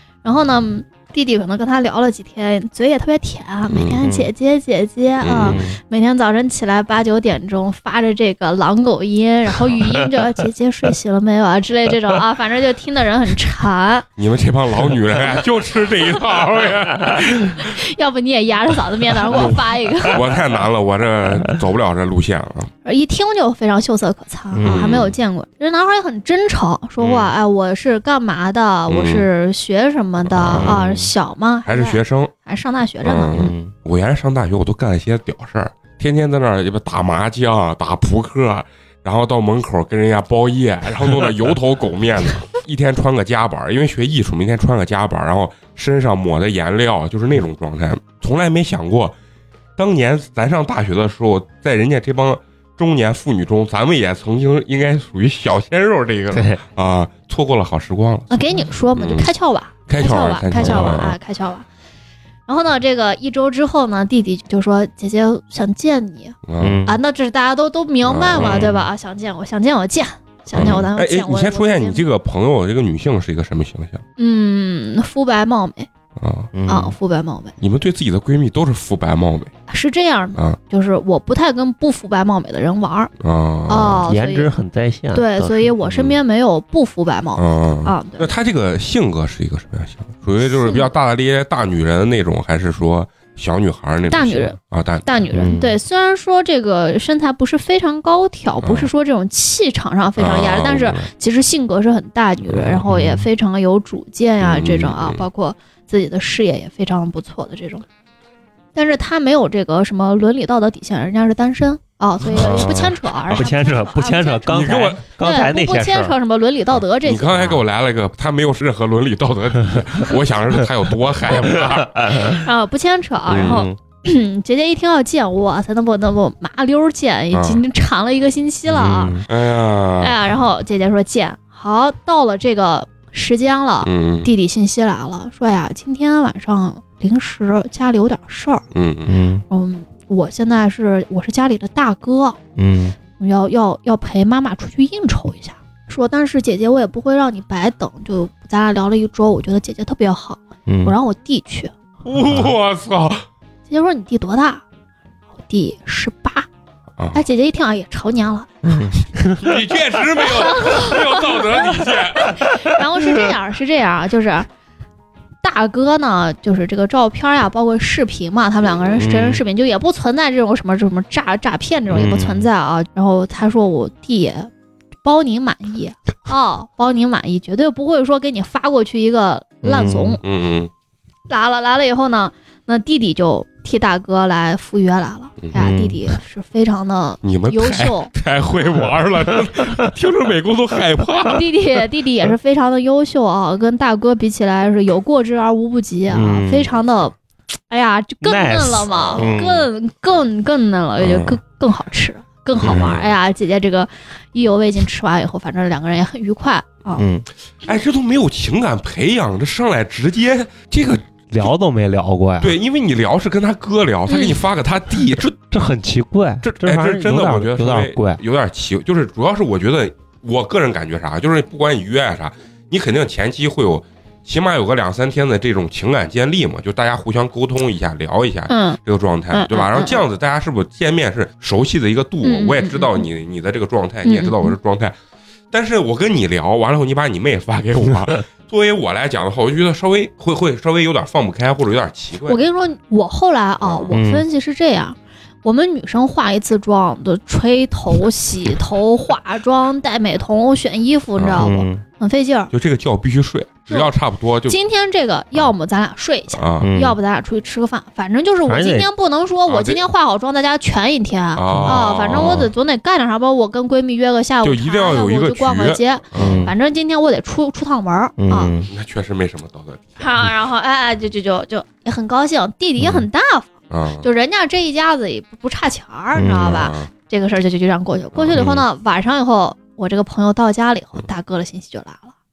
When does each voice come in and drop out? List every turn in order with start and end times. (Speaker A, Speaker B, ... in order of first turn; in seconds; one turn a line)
Speaker A: 0.2-14.1
Speaker B: 3.7-4.0
Speaker C: 4.0-4.3
Speaker B: 5.2-5.6
Speaker C: 5.4-5.8
Speaker B: 14.2-17.7
Speaker A: 17.6-20.3
Speaker B: 19.3-22.7
Speaker A: 22.9-33.4
Speaker C: 24.5-25.0
Speaker B: 24.6-25.1
Speaker C: 27.0-27.3
Speaker B: 28.9-29.3
Speaker B: 30.3-30.8
Speaker C: 30.5-31.1
Speaker B: 31.7-32.3
Speaker B: 33.0-49.1
Speaker C: 33.4-33.7
Speaker B: 49.8-58.4
Speaker C: 56.3-56.6
Speaker A: 58.3-61.6
Speaker B: 58.9-59.3
Speaker B: 59.9-61.2
Speaker C: 60.6-61.0
Speaker A: 62.5-72.0
Speaker B: 66.5-66.8
Speaker C: 66.6-67.0
Speaker B: 68.0-68.8
Speaker C: 68.4-68.7
Speaker B: 70.5-74.0
Speaker C: 70.6-70.8
Speaker A: 74.2-75.9
Speaker B: 76.2-76.5
Speaker C: 76.5-77.0
Speaker A: 76.7-77.6
Speaker B: 77.6-79.5
Speaker A: 79.7-83.1
Speaker B: 83.2-84.0
Speaker A: 83.7-84.5
Speaker C: 84.1-85.8
Speaker A: 85.1-88.3
Speaker B: 85.8-86.2
Speaker B: 87.4-95.1
Speaker A: 90.5-90.9
Speaker A: 94.1-107.8
Speaker C: 95.3-95.8
Speaker B: 98.6-98.9
Speaker B: 100.2-101.1
Speaker C: 102.5-103.3
Speaker B: 104.4-105.2
Speaker A: 108.8-117.6
Speaker B: 112.3-113.4
Speaker C: 112.3-116.2
Speaker B: 114.5-115.0
Speaker B: 117.0-122.3
Speaker C: 121.6-122.4
Speaker A: 122.3-129.2
Speaker B: 123.3-123.6
Speaker C: 123.3-123.8
Speaker B: 127.3-127.6
Speaker C: 128.7-129.2
Speaker B: 129.3-130.2
Speaker A: 130.0-138.7
Speaker B: 133.8-134.3
Speaker B: 138.7-139.2
Speaker C: 139.1-139.4
Speaker A: 139.5-142.4
Speaker C: 142.6-143.0
Speaker A: 143.2-151.7
Speaker C: 150.7-150.9
Speaker B: 152.1-153.2
Speaker C: 152.2-152.5
Speaker A: 153.7-154.6
Speaker A: 155.5-156.5
Speaker B: 157.0-157.2
Speaker A: 157.1-158.5
Speaker C: 158.6-159.5
Speaker B: 159.3-162.4
Speaker A: 160.4-161.4
Speaker A: 162.2-164.5
Speaker A: 165.4-174.5
Speaker C: 169.0-169.4
Speaker C: 171.9-172.5
Speaker A: 175.0-180.2
Speaker C: 179.6-180.2
Speaker B: 180.2-180.7
Speaker A: 181.3-188.1
Speaker B: 185.4-185.8
Speaker C: 185.5-186.0
Speaker B: 187.2-191.5
Speaker A: 191.3-197.2
Speaker C: 196.1-196.7
Speaker A: 197.7-207.1
Speaker C: 198.2-199.7
Speaker B: 198.9-199.4
Speaker B: 201.0-201.4
Speaker B: 202.6-203.1
Speaker C: 202.6-203.0
Speaker C: 207.0-207.3
Speaker B: 207.6-211.2
Speaker C: 211.3-212.6
Speaker B: 212.4-215.5
Speaker A: 214.1-214.4
Speaker C: 215.5-218.2
Speaker B: 216.4-234.9
Speaker A: 228.5-228.8
Speaker A: 229.3-230.0
Speaker A: 232.2-233.1
Speaker A: 234.0-234.6
Speaker B: 235.5-242.4
Speaker A: 242.3-252.5
Speaker B: 243.6-243.9
Speaker C: 243.9-244.2
Speaker B: 251.2-251.5
Speaker C: 251.4-251.8
Speaker B: 252.5-254.6
Speaker A: 254.5-268.6
Speaker B: 256.3-256.7
Speaker C: 256.6-257.0
Speaker C: 258.5-258.9
Speaker B: 259.5-259.8
Speaker B: 261.4-262.5
Speaker C: 261.5-262.5
Speaker B: 264.4-266.5
Speaker C: 266.1-266.5
Speaker C: 268.2-268.7
Speaker B: 268.7-270.0
Speaker A: 270.0-282.1
Speaker C: 272.8-273.1
Speaker B: 273.7-274.1
Speaker C: 276.1-276.7
Speaker B: 276.4-276.9
Speaker B: 278.1-278.5
Speaker C: 278.3-278.6